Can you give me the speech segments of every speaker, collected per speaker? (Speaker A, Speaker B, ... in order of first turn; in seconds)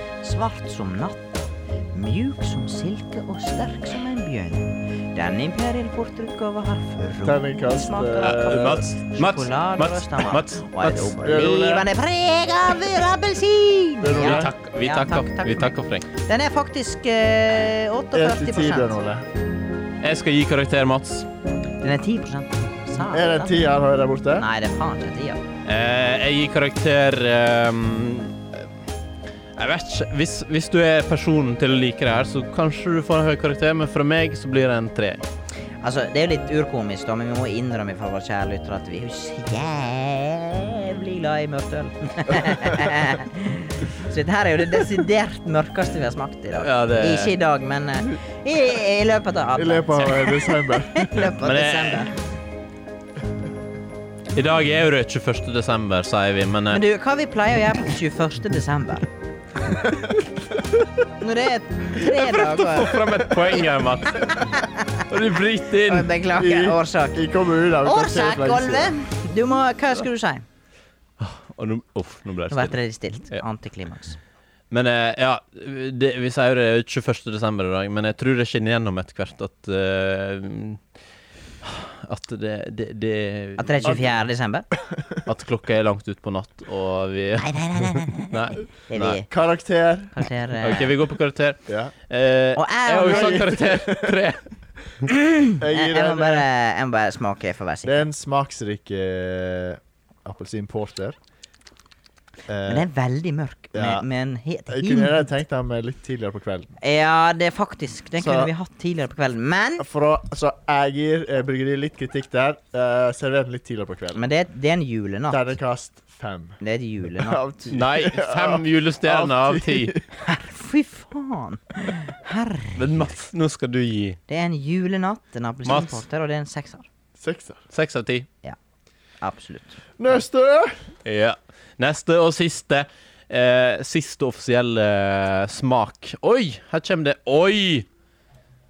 Speaker A: 0.2-18.9, 21.8-23.5, 24.4-25.4, 35.8-52.1, 56.7-59.1, 61.2-63.0, 64.3-65.0, 65.8-67.2, 67.8-70.5, 72.5-74.2, 83.6-84.7, 87.4-89.3, 90.1-90.9, 92.6-93.6, 95.1-98.1, 102.7-105.2, 106.8-109.9, 114.2-115.5, 116.6-117.4, 120.2-123.1, 124.3-126.9, 129.2-129.8
Speaker B: 7.2-8.9, 11.1-11.9, 14.0-14.5, 18.1-19.3, 23.1-24.5, 49.6-51.1, 66.4-69.0, 84.8-85.2, 89.3-90.1, 93.0-94.2, 95.6-96.5, 97.8-101.2, 102.5-102.9, 103.7-104.1, 104.7-106.7, 108.2-108.5, 109.8-114.2, 115.3-116.6, 117.1-120.0, 127.2-127.6, 130.0-130.8
Speaker C: 8.2-11.1, 14.2-16.1, 20.0-21.3, 25.6-28.7, 29.6-35.2, 46.6-47.4, 51.3-52.1, 54.3-56.8, 62.0-66.1, 71.2-72.8, 74.7-80.8, 81.6-84.1, 85.2-89.2, 90.6-94.4, 117.7-120.0, 122.8-124.2, 125.7-126.0, 127.7-128.3, 131.1-137.9